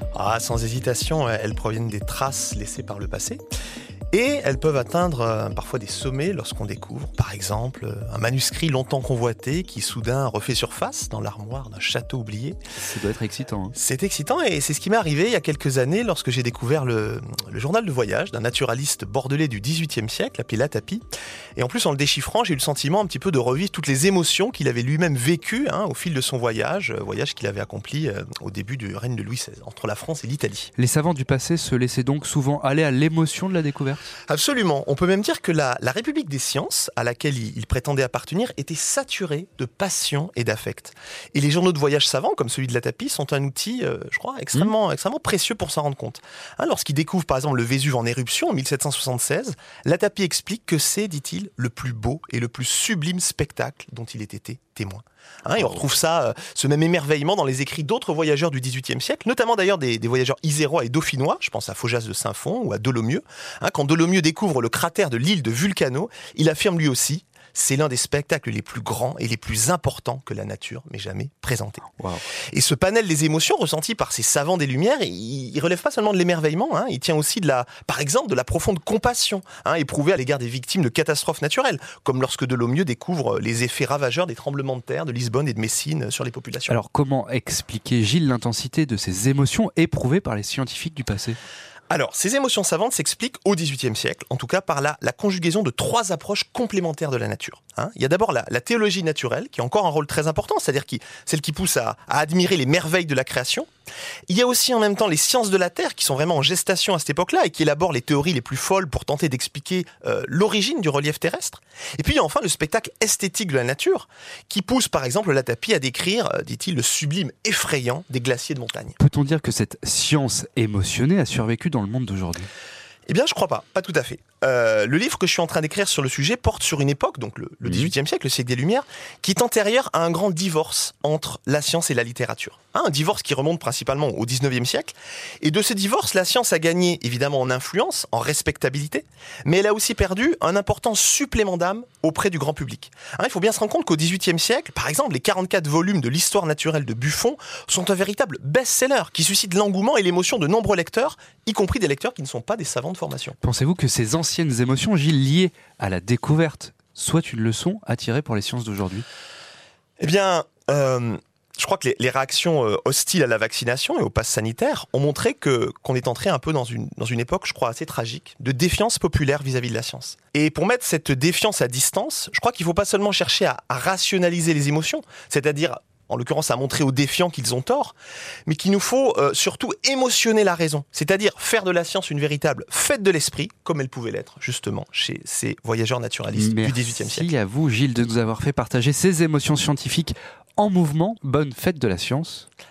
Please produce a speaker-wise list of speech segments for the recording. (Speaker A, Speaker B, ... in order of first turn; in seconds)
Speaker A: 0.1-3.4, 4.1-12.6, 13.8-21.0, 21.6-30.7, 34.3-71.9, 72.5-86.8, 91.9-103.7, 104.3-119.0, 123.1-153.4, 160.0-177.9, 178.5-187.3
Speaker B: 12.8-13.8, 30.8-34.1, 86.7-91.4, 119.0-122.5, 127.7-127.9, 153.4-159.0, 186.3-192.5